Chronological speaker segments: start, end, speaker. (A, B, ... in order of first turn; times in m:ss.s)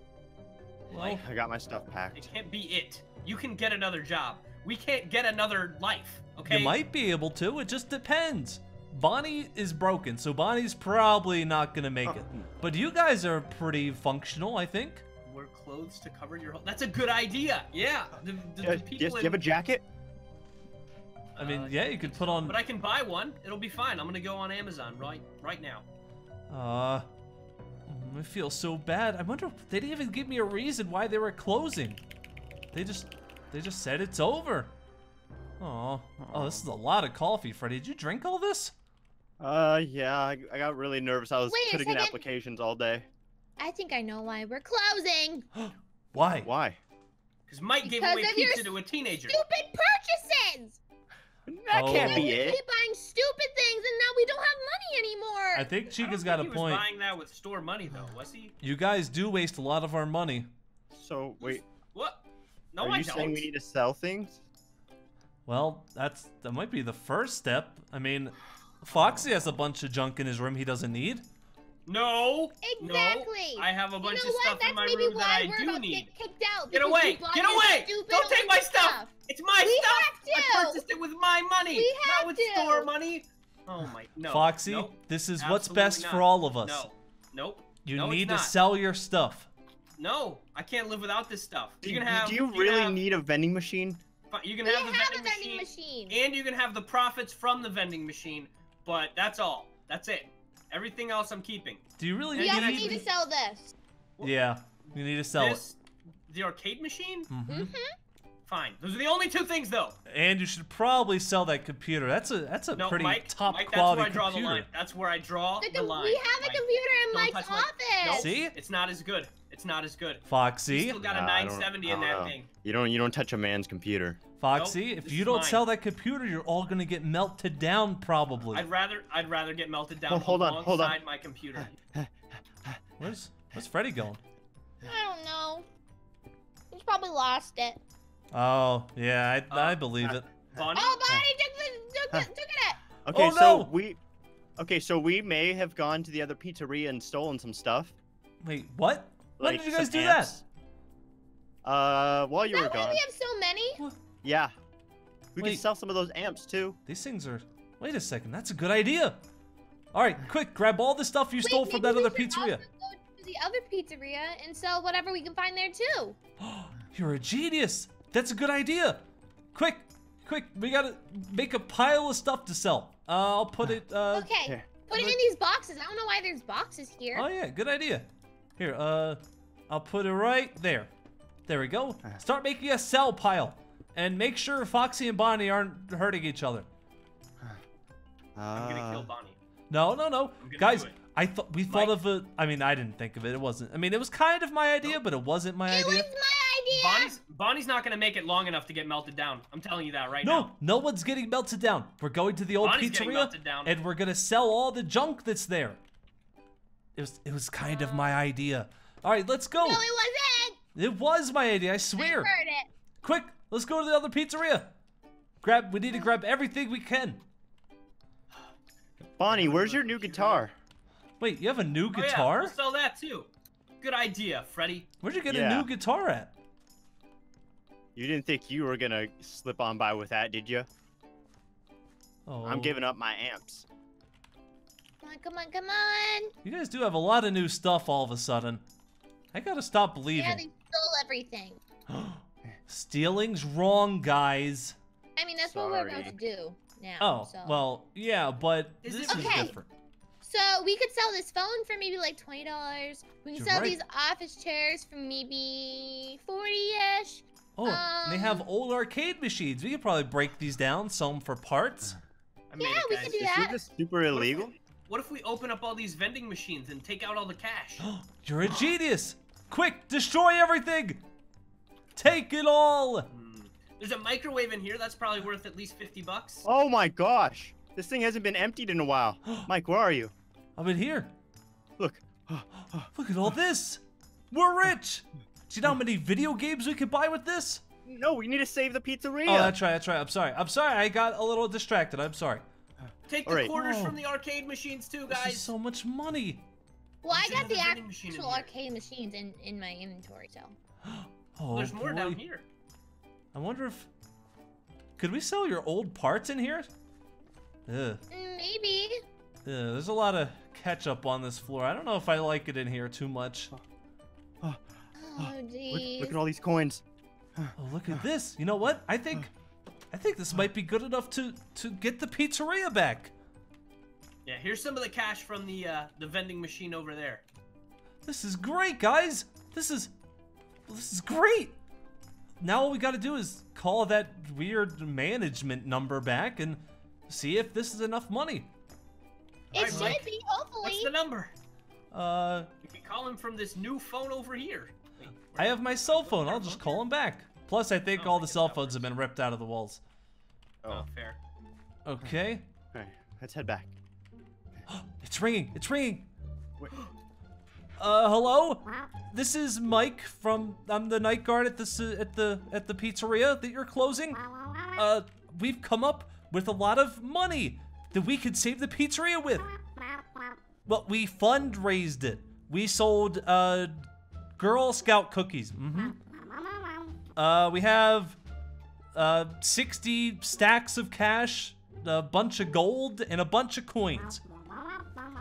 0:00.9-0:01.2 A
0:01.0-0:01.2 B
0:01.0-0:02.3 C
0:02.1-0:06.8 B
0:06.5-0:15.0 A
0:12.0-0:12.5 C
0:15.2-0:19.4 B
0:18.6-0:19.8 C
0:21.4-0:25.8 B
0:21.4-0:22.6 A
0:26.5-0:27.1 A
0:27.9-0:32.0 A
0:32.7-0:34.7 A
0:35.6-0:38.7 A
0:36.3-0:36.6 C
0:39.4-0:43.1 C
0:41.5-0:42.2 D
0:43.6-0:45.4 D
0:45.6-0:46.5 A
0:46.4-0:46.8 C
0:47.5-0:49.4 B
0:47.8-0:50.8 D
0:51.5-0:52.6 C
0:51.7-0:52.3 A
0:51.8-0:55.7 D
0:55.5-0:56.8 A
0:55.9-0:58.5 B
0:58.6-1:00.5 A
1:00.9-1:01.6 C
1:01.4-1:02.2 B
1:02.7-1:03.5 B
1:02.8-1:04.4 C
1:05.4-1:11.2 A
1:11.8-1:16.1 B
1:12.6-1:20.8 D
1:16.7-1:28.5 B
1:21.7-1:22.9 D
1:24.2-1:26.9 A
1:27.8-1:29.5 A
1:30.0-1:33.0 B
1:31.8-1:34.0 C
1:34.3-1:43.1 B
1:34.6-1:36.2 D
1:42.0-1:43.0 A
1:42.3-1:43.7 D
1:44.2-1:45.6 A
1:45.4-1:47.3 B
1:47.3-1:47.7 A
1:47.5-1:47.9 D
1:48.4-1:50.0 B
1:50.1-1:54.7 A
1:52.7-2:02.5 B
1:55.6-1:58.3 D
1:58.1-1:58.5 A
2:00.3-2:01.0 A
2:01.0-2:04.2 C
2:04.4-2:08.6 A
2:04.5-2:05.6 B
2:08.5-2:11.8 B
2:10.1-2:11.0 C
2:13.0-2:14.2 A
2:14.8-2:15.6 D
2:16.7-2:17.8 D
2:18.3-2:20.2 A
2:19.5-2:19.8 B
2:20.5-2:21.0 B
2:20.7-2:22.8 D
2:23.0-2:24.0 C
2:23.1-2:23.7 A
2:24.6-2:27.9 C
2:28.4-2:30.4 A
2:29.4-2:30.4 C
2:31.6-2:33.0 C
2:32.4-2:33.8 D
2:34.2-2:34.5 C
2:35.3-2:36.8 C
2:36.8-2:39.2 A
2:39.9-2:42.6 A
2:41.4-2:46.2 D
2:46.4-2:54.3 A
2:54.1-2:57.3 D
2:54.4-2:55.2 C
2:57.1-3:00.9 A
3:01.5-3:06.7 A
3:08.4-3:09.1 C
3:08.5-3:09.4 B
3:09.7-3:16.1 A
3:10.4-3:11.0 B
3:11.7-3:12.0 B
3:15.7-3:17.2 D
3:16.7-3:20.5 B
3:20.2-3:25.8 A
3:22.6-3:23.8 B
3:27.0-3:29.8 A
3:27.6-3:28.0 D
3:29.6-3:30.6 D
3:30.8-3:32.3 A
3:32.0-3:32.7 D
3:33.0-3:34.7 A
3:35.4-3:37.2 A
3:39.2-3:40.5 C
3:39.2-3:40.5 B
3:41.2-3:42.6 A
3:41.9-3:43.3 B
3:43.8-3:44.9 B
3:45.0-3:46.3 A
3:45.3-3:45.7 C
3:47.9-3:50.7 C
3:52.2-3:52.8 A
3:52.4-3:53.6 C
3:55.0-3:56.3 D
3:56.4-3:58.6 A
3:59.3-4:00.4 A
4:00.1-4:01.6 D
4:01.9-4:04.8 A
4:05.2-4:07.6 D
4:05.5-4:06.2 C
4:07.0-4:09.7 A
4:08.8-4:09.5 B
4:09.1-4:09.6 D
4:10.2-4:18.5 D
4:13.3-4:13.8 A
4:17.6-4:22.0 A
4:22.5-4:23.2 B
4:22.6-4:23.6 D
4:23.0-4:24.5 C
4:24.1-4:27.9 B
4:27.8-4:31.0 A
4:32.0-4:33.1 A
4:33.1-4:36.4 B
4:36.4-4:40.1 C
4:40.6-4:41.1 A
4:41.8-4:42.9 C
4:42.9-4:47.6 A
4:47.8-4:49.6 C
4:49.2-4:52.4 A
4:53.1-4:55.5 B
4:53.2-4:53.5 C
4:53.5-4:54.0 A
4:55.1-4:56.4 A
4:57.0-5:00.6 D
4:57.1-4:58.5 B
5:00.8-5:02.2 A
5:01.5-5:02.4 B
5:03.3-5:03.9 A
5:05.0-5:06.7 A
5:07.7-5:08.0 A
5:08.1-5:09.0 D
5:09.4-5:13.5 A
5:15.0-5:16.2 D
5:15.2-5:16.8 C
5:17.6-5:19.3 A
5:19.9-5:23.1 A
5:24.2-5:27.2 B
5:28.0-5:29.9 A
5:30.7-5:31.6 A
5:32.4-5:38.5 A
5:39.5-5:40.1 B
5:39.5-5:40.9 D
5:39.6-5:40.0 A
5:40.6-5:41.3 B
5:41.9-5:42.5 A
5:42.6-5:46.8 B
5:45.3-5:49.8 A
5:47.9-5:48.9 B
5:50.7-5:51.2 B
5:51.8-5:52.5 A
5:52.7-5:53.7 C
5:54.7-5:56.1 A
5:57.8-6:04.2 A
6:04.7-6:09.5 A
6:10.6-6:16.0 A
6:17.2-6:18.2 A
6:18.9-6:24.2 A